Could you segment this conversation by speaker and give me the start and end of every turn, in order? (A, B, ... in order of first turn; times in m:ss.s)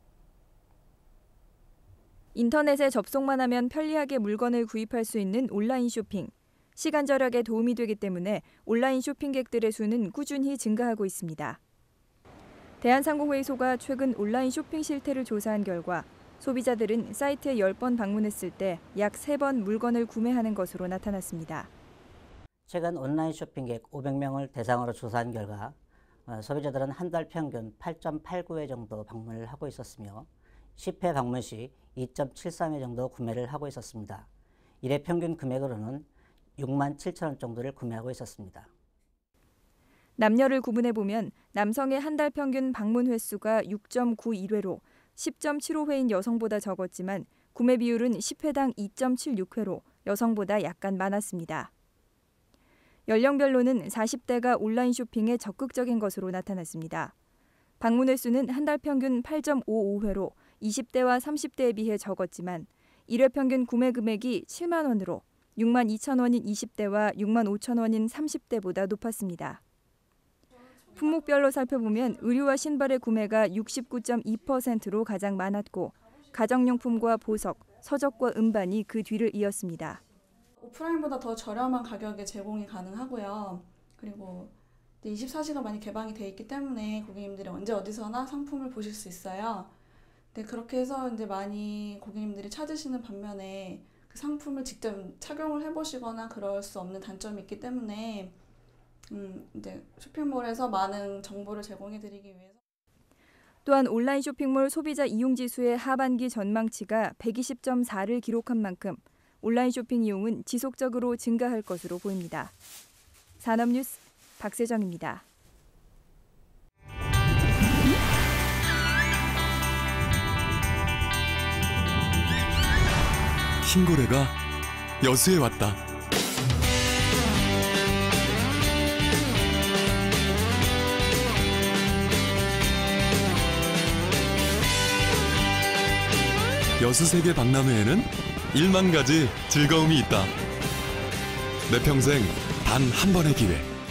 0:02.3-0:11.6 A
0:12.8-0:21.7 A
0:22.7-0:25.8 B
0:26.3-0:34.3 B
0:34.8-0:36.1 B
0:36.6-0:38.7 B
0:40.2-0:51.7 A
0:53.1-0:57.1 A
0:57.8-1:09.6 A
1:10.9-1:20.0 A
1:20.6-1:29.7 C
1:30.3-1:38.4 C
1:39.1-1:42.6 C
1:43.6-1:52.5 A
1:53.4-1:55.2 A
2:03.6-2:04.3 D
2:05.0-2:05.8 D
2:16.8-2:20.3 D
2:21.7-2:23.7 D